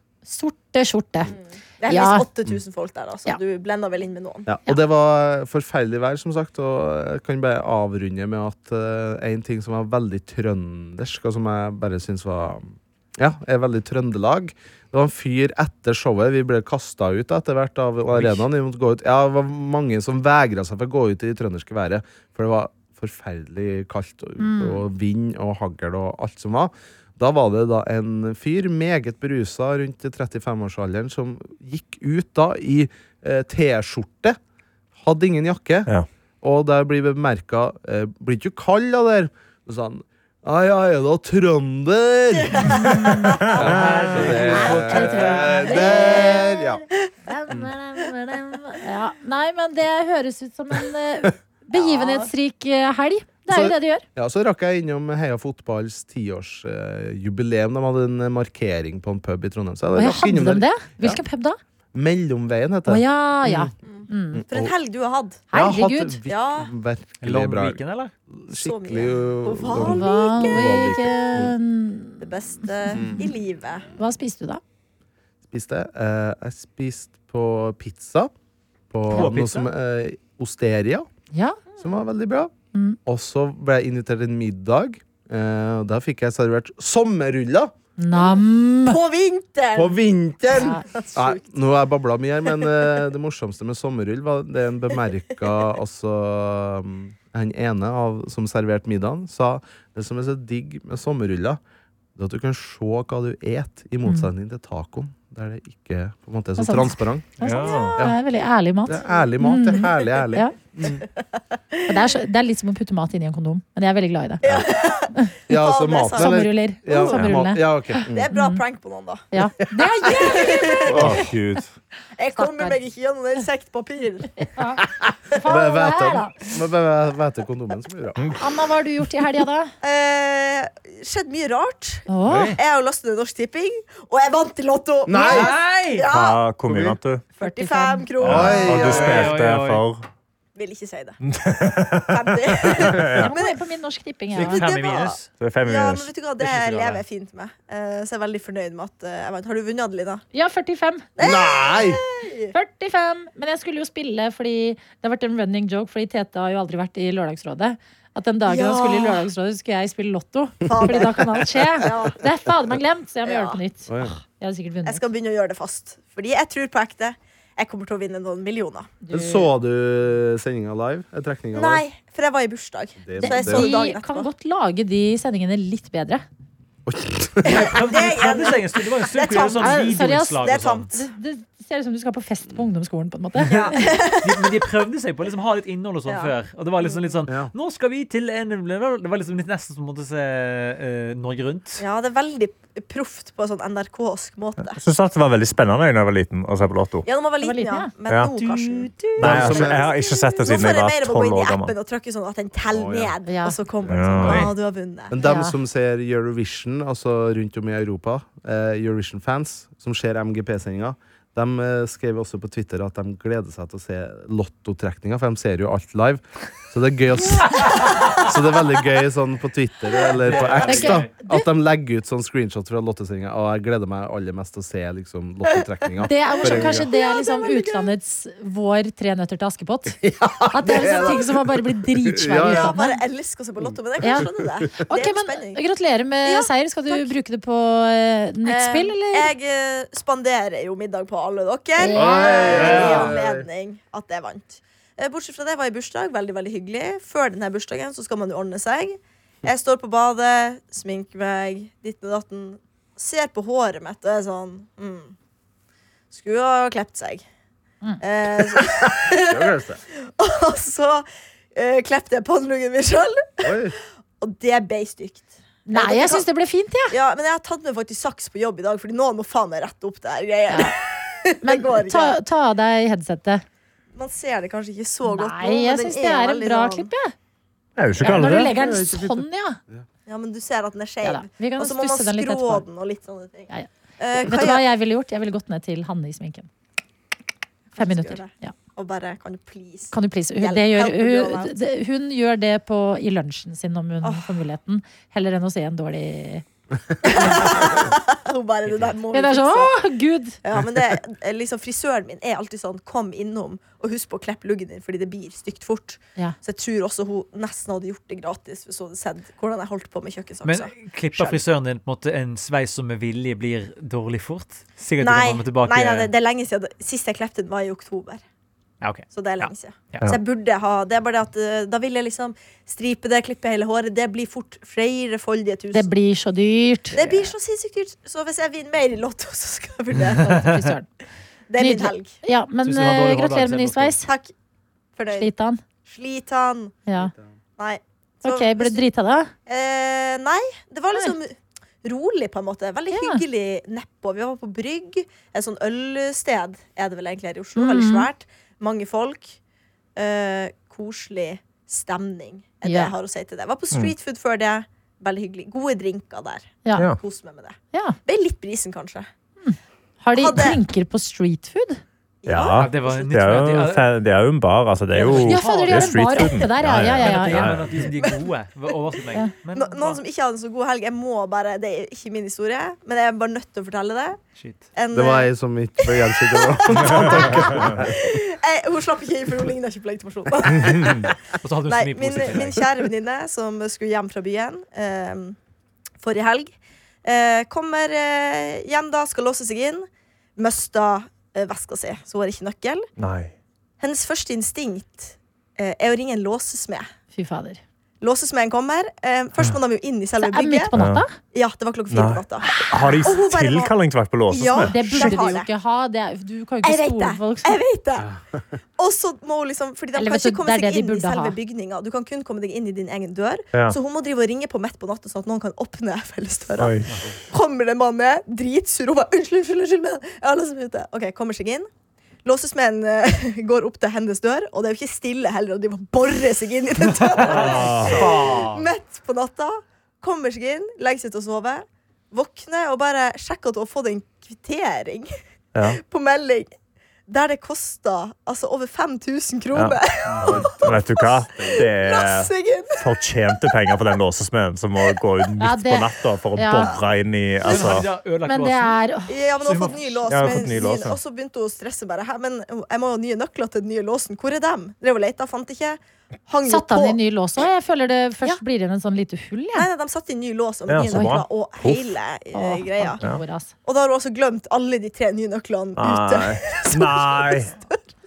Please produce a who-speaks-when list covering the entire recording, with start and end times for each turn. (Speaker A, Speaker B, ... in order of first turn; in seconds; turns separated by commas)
Speaker A: 0.2-1.3, Speaker B: 1.3-4.5, Speaker A: 1.9-2.2, Speaker C: 4.5-34.4, Speaker D: 18.1-18.4, Speaker A: 24.4-24.8, Speaker C: 35.0-35.9, Speaker C: 36.4-46.8, Speaker B: 42.4-43.4, Speaker A: 42.7-46.6, Speaker E: 43.5-44.4, Speaker D: 43.5-45.7, Speaker B: 45.7-46.5, Speaker A: 47.2-54.0, Speaker B: 51.7-52.3, Speaker C: 53.5-61.2, Speaker A: 59.9-61.6, Speaker C: 61.9-63.7, Speaker A: 62.9-64.4, Speaker B: 63.9-65.4, Speaker C: 64.3-64.7, Speaker A: 65.5-66.2, Speaker C: 65.5-71.5, Speaker B: 66.3-66.7, Speaker D: 67.2-68.1, Speaker B: 68.5-71.0, Speaker A: 69.8-73.3, Speaker B: 72.2-73.9, Speaker C: 72.9-73.3, Speaker A: 73.9-74.6, Speaker C: 75.5-78.3, Speaker C: 78.9-81.1, Speaker D: 79.1-79.7, Speaker A: 81.3-81.6, Speaker C: 81.8-82.5, Speaker C: 83.0-87.7, Speaker A: 88.0-89.0, Speaker B: 88.1-91.4, Speaker C: 89.7-101.6, Speaker A: 90.5-90.8, Speaker C: 102.2-107.4, Speaker A: 104.0-104.3, Speaker A: 106.6-110.5, Speaker E: 107.4-108.0, Speaker B: 107.6-108.0, Speaker C: 108.8-111.1, Speaker A: 111.9-114.4, Speaker B: 114.4-116.3, Speaker C: 115.5-118.3, Speaker A: 116.1-118.6, Speaker B: 118.1-119.2, Speaker A: 119.3-120.9, Speaker B: 120.0-121.2, Speaker E: 120.9-121.7, Speaker C: 120.9-121.2, Speaker B: 122.2-124.4, Speaker A: 122.3-122.8, Speaker A: 124.4-126.4, Speaker C: 125.3-128.2, Speaker A: 128.4-129.7, Speaker B: 129.8-136.4, Speaker A: 132.1-132.6, Speaker D: 132.3-132.5, Speaker C: 135.1-135.6, Speaker D: 135.2-136.1, Speaker E: 136.1-137.2, Speaker C: 136.7-137.0, Speaker B: 137.4-139.2, Speaker A: 137.4-138.1, Speaker E: 138.2-140.0, Speaker C: 138.2-139.3, Speaker D: 138.7-139.8, Speaker B: 140.6-141.2, Speaker E: 141.2-143.3, Speaker B: 142.0-143.6, Speaker A: 143.1-144.6, Speaker B: 144.3-150.2, Speaker D: 144.3-145.3, Speaker E: 145.4-146.1, Speaker D: 146.4-147.0, Speaker A: 150.3-151.1, Speaker B: 151.2-152.5, Speaker C: 151.2-152.0, Speaker A: 152.5-165.0, Speaker B: 158.4-159.2, Speaker B: 160.7-162.3, Speaker C: 160.7-161.1, Speaker B: 163.2-163.6, Speaker C: 163.9-164.2, Speaker B: 164.8-168.9, Speaker A: 169.0-169.5, Speaker C: 169.1-171.8, Speaker B: 171.5-174.3, Speaker C: 173.0-173.8, Speaker A: 173.2-176.2, Speaker C: 176.8-177.8, Speaker D: 177.4-180.9, Speaker B: 177.6-181.1, Speaker A: 179.6-183.8, Speaker B: 183.5-184.5, Speaker D: 183.5-191.8, Speaker B: 186.1-187.0, Speaker B: 191.8-194.8, Speaker E: 194.7-197.1, Speaker B: 197.0-205.1, Speaker A: 197.4-197.9, Speaker E: 198.1-198.3, Speaker D: 198.3-199.0, Speaker E: 199.2-201.7, Speaker C: 199.2-199.8, Speaker C: 202.7-203.1, Speaker A: 203.2-203.6, Speaker C: 203.8-204.5, Speaker E: 203.9-204.5, Speaker C: 205.1-226.9, Speaker A: 205.2-205.6, Speaker B: 217.7-218.2, Speaker D: 220.2-221.1, Speaker A: 220.6-221.5, Speaker A: 226.0-230.0, Speaker B: 226.3-227.9, Speaker C: 230.0-232.8, Speaker A: 230.5-233.0, Speaker B: 232.4-235.6, Speaker C: 233.6-234.6, Speaker A: 234.0-239.3, Speaker B: 236.2-237.1, Speaker B: 238.4-255.1, Speaker A: 241.8-242.9, Speaker C: 241.9-243.5, Speaker D: 242.7-243.0, Speaker B: 256.1-257.2, Speaker B: 258.0-263.5, Speaker C: 258.5-259.8, Speaker C: 263.4-263.8, Speaker B: 264.2-266.2, Speaker A: 265.6-266.9, Speaker B: 266.9-272.2, Speaker A: 271.4-273.4, Speaker B: 273.9-276.9, Speaker A: 275.0-277.1, Speaker E: 277.8-278.6, Speaker A: 278.0-279.6, Speaker C: 278.2-279.8, Speaker B: 280.1-284.6, Speaker A: 281.0-282.6, Speaker A: 283.5-286.5, Speaker B: 287.7-291.6, Speaker A: 287.8-288.5, Speaker A: 289.9-296.4, Speaker B: 294.0-294.3, Speaker B: 297.0-299.9, Speaker A: 297.2-297.4, Speaker D: 298.7-298.9, Speaker A: 299.1-300.4, Speaker B: 300.4-311.4, Speaker D: 310.4-316.1, Speaker B: 315.0-318.2, Speaker D: 318.8-320.1, Speaker B: 319.1-325.9, Speaker A: 325.7-327.0, Speaker B: 326.9-330.7, Speaker D: 330.0-330.5, Speaker A: 330.4-330.9, Speaker B: 331.5-332.1, Speaker A: 331.6-334.1, Speaker D: 332.6-334.0, Speaker B: 334.0-334.3, Speaker B: 334.9-335.3, Speaker A: 335.1-335.6, Speaker B: 335.9-336.8, Speaker A: 336.9-337.1, Speaker B: 337.6-338.8, Speaker A: 338.2-339.3, Speaker B: 339.4-349.4, Speaker A: 342.9-343.2, Speaker A: 347.6-348.1, Speaker B: 349.9-359.1, Speaker A: 352.6-352.9, Speaker A: 359.4-361.8, Speaker B: 360.1-360.6, Speaker B: 362.2-363.4, Speaker E: 362.2-367.7, Speaker D: 362.6-363.9, Speaker D: 364.9-366.2, Speaker A: 365.0-367.5, Speaker D: 367.0-370.0, Speaker B: 368.0-368.3, Speaker B: 369.5-374.2, Speaker D: 374.4-374.7, Speaker B: 374.8-375.3, Speaker C: 374.9-378.2, Speaker B: 375.8-385.4, Speaker E: 376.8-377.8, Speaker D: 381.4-382.7, Speaker B: 386.0-392.9, Speaker E: 393.0-393.3, Speaker B: 393.8-396.9, Speaker A: 397.1-397.6, Speaker B: 398.0-400.7, Speaker A: 400.2-401.1, Speaker E: 400.7-401.1, Speaker B: 401.2-403.8, Speaker E: 401.9-405.2, Speaker A: 402.5-403.0, Speaker B: 404.3-405.5, Speaker A: 404.6-407.6, Speaker B: 406.6-408.1, Speaker B: 408.8-421.7, Speaker A: 409.9-411.4, Speaker E: 416.6-416.9, Speaker B: 422.2-435.1, Speaker D: 426.9-428.7, Speaker E: 427.4-428.1, Speaker E: 435.5-435.8, Speaker B: 435.7-436.5, Speaker B: 437.1-443.7, Speaker E: 439.5-447.9, Speaker C: 440.2-441.6, Speaker A: 445.4-446.7, Speaker D: 447.4-448.8, Speaker A: 448.2-449.7, Speaker B: 449.1-457.0, Speaker D: 449.4-450.0, Speaker E: 450.1-451.0, Speaker A: 456.5-459.7, Speaker B: 459.5-463.0, Speaker E: 460.7-461.9, Speaker A: 460.9-461.2, Speaker A: 462.3-463.5, Speaker B: 463.6-467.8, Speaker E: 465.8-467.5